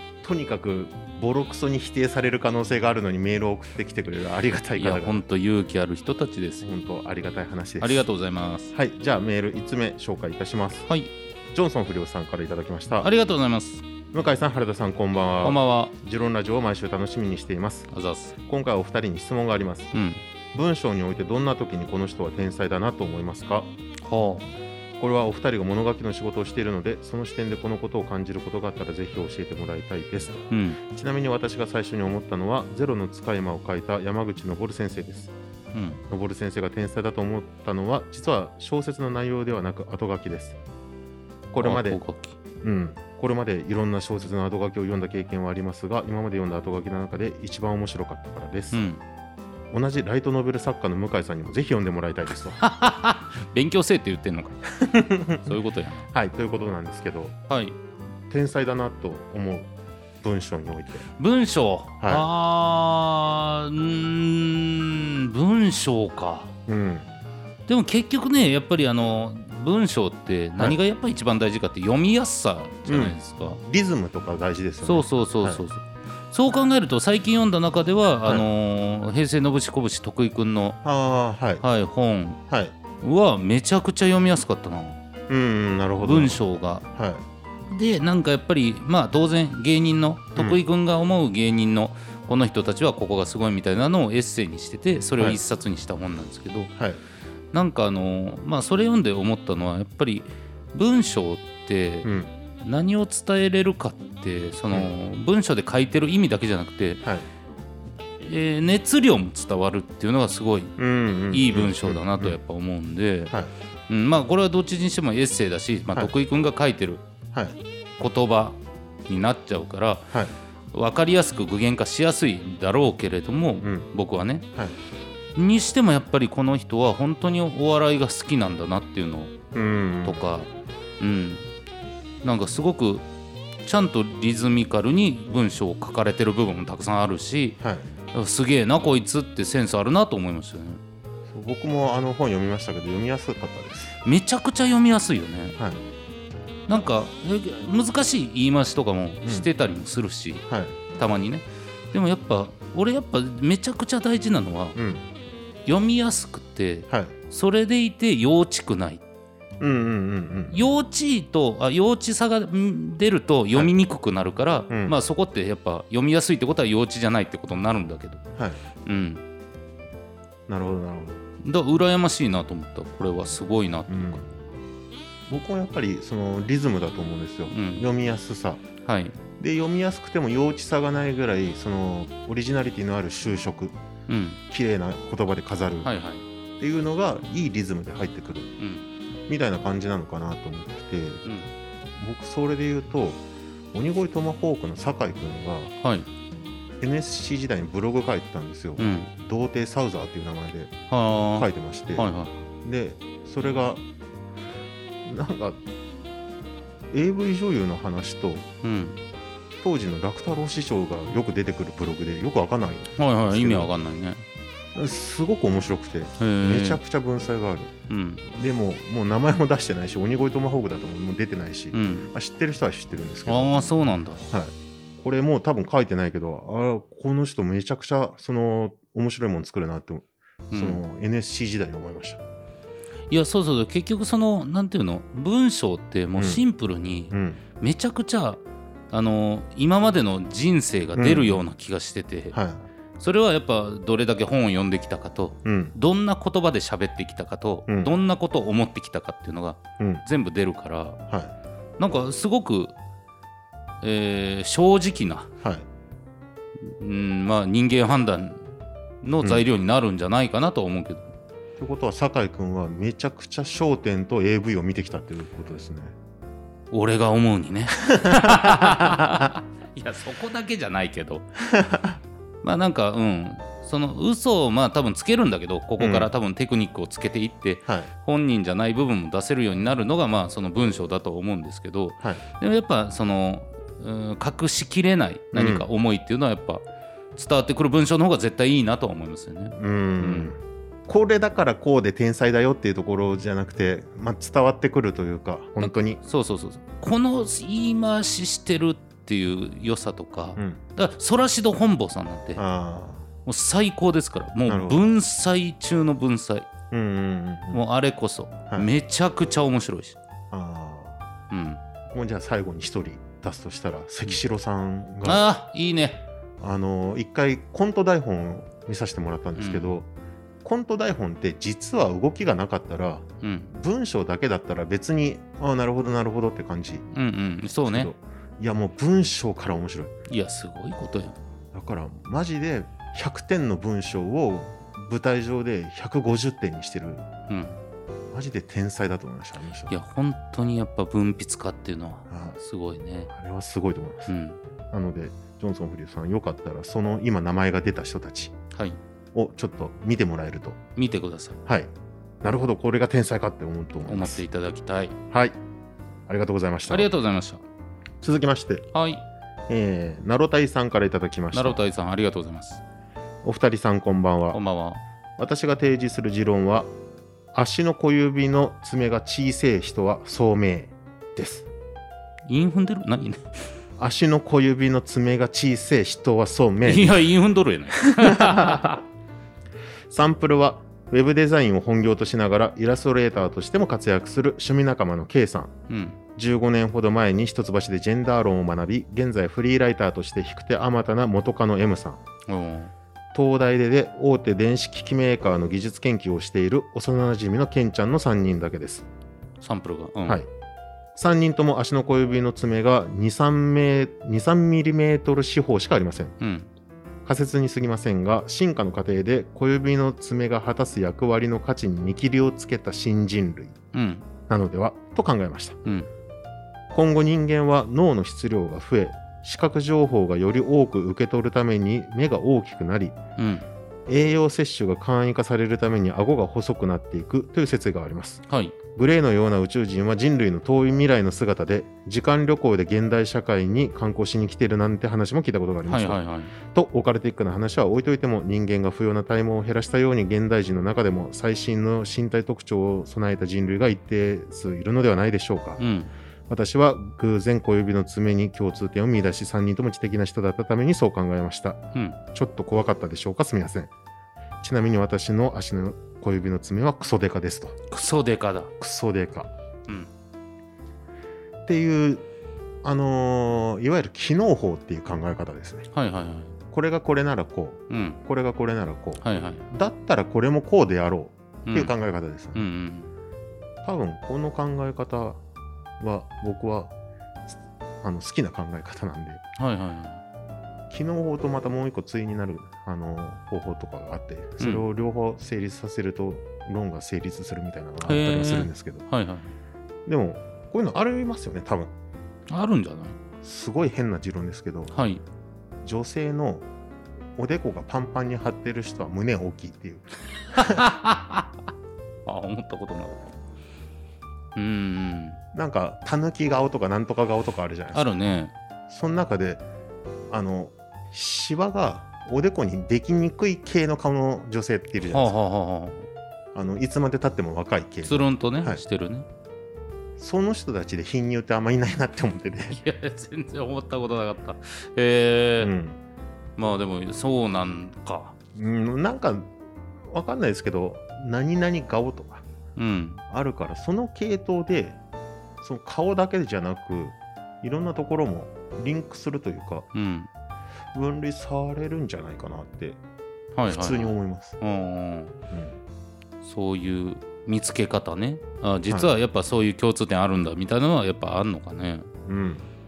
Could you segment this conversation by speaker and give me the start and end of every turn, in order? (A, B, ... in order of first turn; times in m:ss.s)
0:00.2-0:05.2 A
0:04.8-0:06.7 B
0:06.6-0:08.0 A
0:07.8-0:08.7 B
0:08.7-0:10.9 A
0:11.5-0:13.1 A
0:13.0-0:13.8 B
0:14.1-0:17.9 A
0:15.4-0:15.9 B
0:17.9-0:18.3 B
0:18.4-0:19.9 A
0:19.9-0:20.2 B
0:20.5-0:23.7 A
0:24.0-0:24.5 B
0:25.0-0:35.3 A
0:30.5-0:30.8 B
0:35.7-0:36.0 B
0:36.1-0:40.6 A
0:41.5-0:42.0 A
0:41.6-0:42.4 B
0:42.6-0:48.8 A
0:48.7-0:49.0 B
0:49.7-0:52.6 A
0:52.6-0:54.6 B
0:54.8-0:55.5 A
0:55.4-0:56.1 B
0:56.1-0:57.4 A
0:57.5-0:57.8 B
0:58.3-0:59.7 A
1:00.2-1:01.0 A
1:01.2-1:06.5 B
1:02.0-1:02.2 A
1:06.7-1:07.1 A
1:07.7-1:13.6 B
1:12.8-1:15.6 A
1:14.8-1:20.8 B
1:20.8-1:21.6 A
1:21.6-1:22.4 B
1:22.5-1:22.7 A
1:23.0-1:25.0 B
1:25.3-1:26.4 A
1:26.0-1:26.8 B
1:26.9-1:27.2 A
1:27.7-1:36.7 B
1:37.5-1:42.1 B
1:42.0-1:42.3 A
1:42.6-1:47.0 B
1:48.2-1:50.8 B
1:50.8-1:52.4 A
1:51.3-1:53.3 B
1:53.9-1:57.0 B
1:57.3-1:57.6 A
1:58.0-1:58.6 B
1:59.1-2:00.1 B
2:00.7-2:04.4 B
2:03.6-2:03.9 A
2:05.4-2:09.3 B
2:09.5-2:10.3 A
2:10.0-2:11.4 B
2:12.2-2:13.0 B
2:13.6-2:17.6 B
2:17.6-2:17.9 A
2:18.1-2:20.8 B
2:21.3-2:23.9 A
2:24.0-2:25.6 B
2:26.7-2:34.8 B
2:30.5-2:30.7 A
2:34.7-2:35.0 A
2:35.6-2:39.0 B
2:39.6-2:40.5 A
2:40.5-2:48.2 B
2:44.7-2:44.9 A
2:48.8-2:49.2 B
2:50.5-2:51.2 A
2:51.4-2:54.2 B
2:53.9-2:54.2 A
2:55.3-2:58.6 A
2:57.5-2:57.8 B
2:58.8-2:59.2 B
2:59.4-3:03.7 A
3:04.1-3:04.4 B
3:04.5-3:05.9 A
3:05.8-3:06.2 B
3:06.6-3:08.5 A
3:08.6-3:08.9 B
3:09.3-3:11.2 A
3:12.0-3:13.2 A
3:13.7-3:15.7 A
3:15.8-3:16.1 B
3:16.8-3:20.7 A
3:18.8-3:19.1 B
3:20.9-3:22.4 B
3:21.3-3:23.8 A
3:25.0-3:25.6 A
3:26.9-3:28.4 A
3:28.6-3:29.0 B
3:29.6-3:33.7 A
3:33.0-3:34.2 B
3:34.7-3:37.7 A
3:36.2-3:36.8 B
3:37.9-3:38.2 B
3:38.3-3:43.7 A
3:41.7-3:42.1 B
3:43.3-3:44.3 B
3:44.3-3:52.2 A
3:50.5-3:50.8 B
3:53.1-4:02.4 B
3:56.2-3:56.4 A
3:57.1-3:57.4 A
4:01.0-4:01.4 A
4:02.3-4:02.6 A
4:03.0-4:11.0 B
4:05.4-4:05.7 A
4:07.7-4:07.9 A
4:09.8-4:10.0 A
4:11.8-4:12.7 B
4:13.8-4:15.3 B
4:16.6-4:18.4 B
4:19.0-4:21.1 B
4:19.2-4:19.4 A
4:21.6-4:25.9 A
4:26.7-4:31.2 B
4:27.9-4:29.2 A
4:31.5-4:32.0 A
4:32.4-4:46.6 B
4:35.8-4:36.1 A
4:45.3-4:45.7 A
4:47.2-4:50.3 B
4:49.6-4:56.0 A
4:55.6-5:02.4 B
5:02.4-5:03.0 A
5:03.2-5:06.5 B
5:04.5-5:04.8 A
5:06.7-5:07.6 A
5:07.5-5:10.0 B
5:10.3-5:11.0 A
5:11.3-5:11.6 B
5:11.9-5:15.2 A
5:15.0-5:16.0 B
5:16.4-5:19.9 A
5:19.4-5:19.7 B
5:20.4-5:26.8 A
5:23.2-5:23.5 B
5:26.9-5:27.9 B
5:27.7-5:29.9 A
5:30.1-5:31.2 B
5:31.5-5:37.0 A
5:37.3-5:37.6 B
5:38.1-5:39.7 A
5:39.7-5:43.1 B
5:42.1-5:42.4 A
5:43.1-5:44.1 A
5:44.1-5:44.4 B
5:44.7-5:48.3 A
5:48.5-5:48.8 B
5:49.1-5:50.6 A
5:50.8-5:51.4 B
5:51.4-5:51.7 A
5:52.2-5:54.2 A
5:53.8-5:55.0 B
5:55.1-5:55.4 A
5:56.1-5:56.9 A
5:56.7-5:57.4 B
5:58.0-5:58.6 A
5:58.7-5:59.0 B
5:59.5-6:01.6 A
6:01.3-6:02.6 B
6:03.2-6:04.4 A
6:04.3-6:04.8 B
6:05.2-6:06.7 A
6:07.3-6:11.5 A
6:12.3-6:13.3 B
6:13.8-6:17.0 A
6:16.6-6:18.7 B
6:17.8-6:18.8 A
6:19.9-6:25.5 A
6:25.7-6:26.0 B
6:26.2-6:32.0 A
6:32.3-6:32.7 B
6:33.1-6:38.9 A
6:39.4-6:40.2 B
6:40.9-6:46.2 A
6:46.2-6:46.5 B
6:47.0-6:53.5 A
6:53.7-6:54.0 B
6:54.3-6:55.6 A
6:56.7-7:03.0 A
7:03.2-7:03.4 B
7:03.9-7:08.2 A
7:08.3-7:08.6 B
7:08.7-7:25.6 A
7:15.7-7:16.3 B
7:25.6-7:25.9 B
7:26.3-7:31.6 A
7:32.1-7:33.7 A
7:34.4-7:37.6 A
7:37.7-7:38.5 B
7:38.6-7:39.3 A
7:41.4-7:42.0 A
7:42.6-7:45.7 A
7:45.7-7:46.4 B
7:46.5-7:52.4 A
7:47.7-7:48.0 B
7:49.0-7:49.4 B
7:51.4-7:51.7 B
7:52.3-7:52.9 B
7:53.6-7:55.2 A
7:55.8-7:56.7 A
7:57.3-7:59.2 A
7:59.4-8:00.0 B
8:00.7-8:08.8 A
8:04.4-8:04.6 B
8:07.8-8:09.3 B
8:09.9-8:11.7 A
8:12.3-8:13.0 B
8:13.2-8:14.7 A
8:14.7-8:15.0 B
8:15.6-8:16.4 A
8:17.2-8:20.6 A
8:20.3-8:21.3 B
8:22.0-8:23.1 B
8:24.4-8:25.2 B
8:25.3-8:27.8 A
8:27.7-8:28.3 B
8:28.7-8:29.4 A
8:30.1-8:35.1 A
8:34.8-8:35.9 B
8:36.3-8:38.6 A
8:37.8-8:39.1 B
8:40.0-8:42.6 A
8:42.5-8:45.5 B
8:45.4-8:45.8 A
8:46.4-8:48.1 B
8:48.3-8:49.3 A
8:49.9-8:52.2 A
8:52.6-8:53.0 B
8:53.1-8:54.8 A
8:55.4-8:59.7 A
8:59.7-9:00.1 B
9:00.7-9:02.8 A
9:03.3-9:05.1 B
9:03.5-9:04.4 A
9:05.3-9:05.6 A
9:06.2-9:11.9 B
9:08.7-9:08.9 A
9:12.0-9:12.5 A